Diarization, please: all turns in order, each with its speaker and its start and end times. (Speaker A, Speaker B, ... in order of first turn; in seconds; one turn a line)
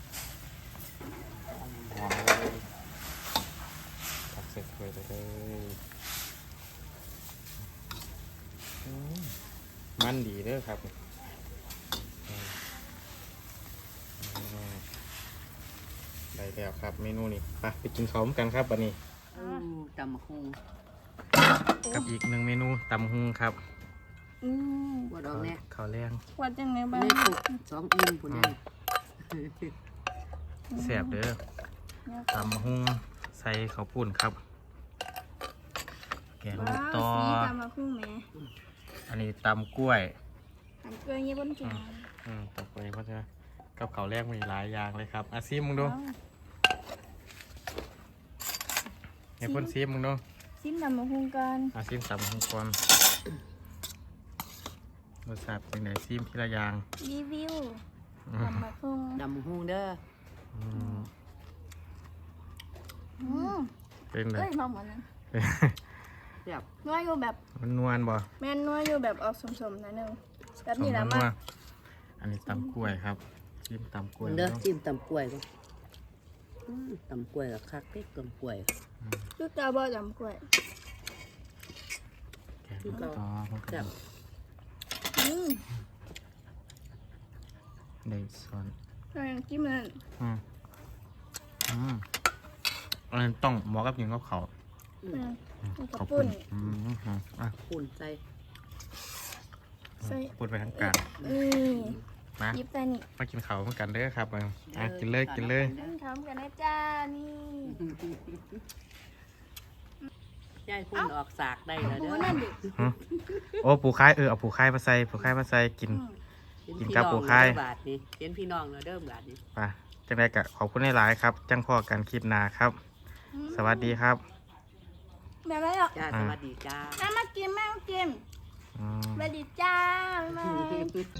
Speaker A: 1.5-2.7
Speaker A: 4.3-5.8
Speaker A: 8.8-9.4
Speaker A: 10.0-10.9
Speaker A: 12.3-12.6
Speaker A: 14.2-14.8
Speaker A: 16.3-19.0
Speaker B: 19.3-20.6
Speaker C: 19.3-19.6
Speaker A: 21.9-23.6
Speaker C: 24.4-25.1
Speaker B: 25.1-25.6
Speaker A: 25.3-26.2
Speaker C: 26.3-27.6
Speaker B: 26.9-28.6
Speaker A: 28.3-28.5
Speaker B: 29.2-29.7
Speaker C: 30.7-31.2
Speaker A: 30.7-31.4
Speaker C: 32.1-32.7
Speaker A: 32.3-34.4
Speaker A: 36.4-37.6
Speaker C: 36.5-38.3
Speaker A: 39.1-40.1
Speaker C: 40.8-42.1
Speaker A: 41.6-46.0
Speaker C: 45.7-46.2
Speaker A: 49.4-50.2
Speaker C: 49.4-49.7
Speaker C: 50.6-51.7
Speaker A: 51.7-52.8
Speaker A: 55.2-56.8
Speaker C: 57.0-57.8
Speaker A: 58.3-58.7
Speaker C: 58.4-59.2
Speaker B: 59.1-60.0
Speaker A: 60.5-61.1
Speaker C: 60.7-61.0
Speaker C: 63.2-63.7
Speaker A: 64.1-64.5
Speaker C: 64.3-65.0
Speaker A: 65.3-66.1
Speaker C: 66.8-67.4
Speaker A: 67.5-68.3
Speaker C: 68.4-71.3
Speaker A: 70.6-71.3
Speaker A: 72.2-74.6
Speaker C: 72.5-72.9
Speaker B: 74.2-75.4
Speaker B: 76.7-78.7
Speaker A: 79.0-79.3
Speaker C: 79.4-80.5
Speaker A: 82.7-83.9
Speaker B: 82.8-83.9
Speaker C: 85.1-85.6
Speaker A: 88.0-88.7
Speaker C: 89.1-90.0
Speaker A: 91.7-92.0
Speaker A: 93.1-94.5
Speaker B: 95.0-95.3
Speaker C: 95.1-96.4
Speaker A: 95.6-97.5
Speaker B: 97.6-98.2
Speaker A: 100.0-101.3
Speaker C: 100.0-102.0
Speaker B: 101.3-102.0
Speaker C: 102.5-103.0
Speaker A: 103.1-105.8
Speaker B: 104.7-106.0
Speaker C: 105.7-107.8
Speaker B: 107.7-108.6
Speaker B: 110.7-113.6
Speaker C: 111.8-112.7
Speaker A: 112.7-116.1
Speaker B: 116.7-119.4
Speaker A: 116.8-117.6
Speaker A: 119.5-122.8
Speaker C: 123.3-124.0
Speaker A: 123.5-124.2
Speaker C: 125.4-126.0
Speaker B: 125.9-127.0
Speaker A: 126.1-126.4
Speaker C: 127.0-128.2
Speaker A: 128.7-129.3
Speaker C: 129.1-130.9
Speaker B: 130.5-131.0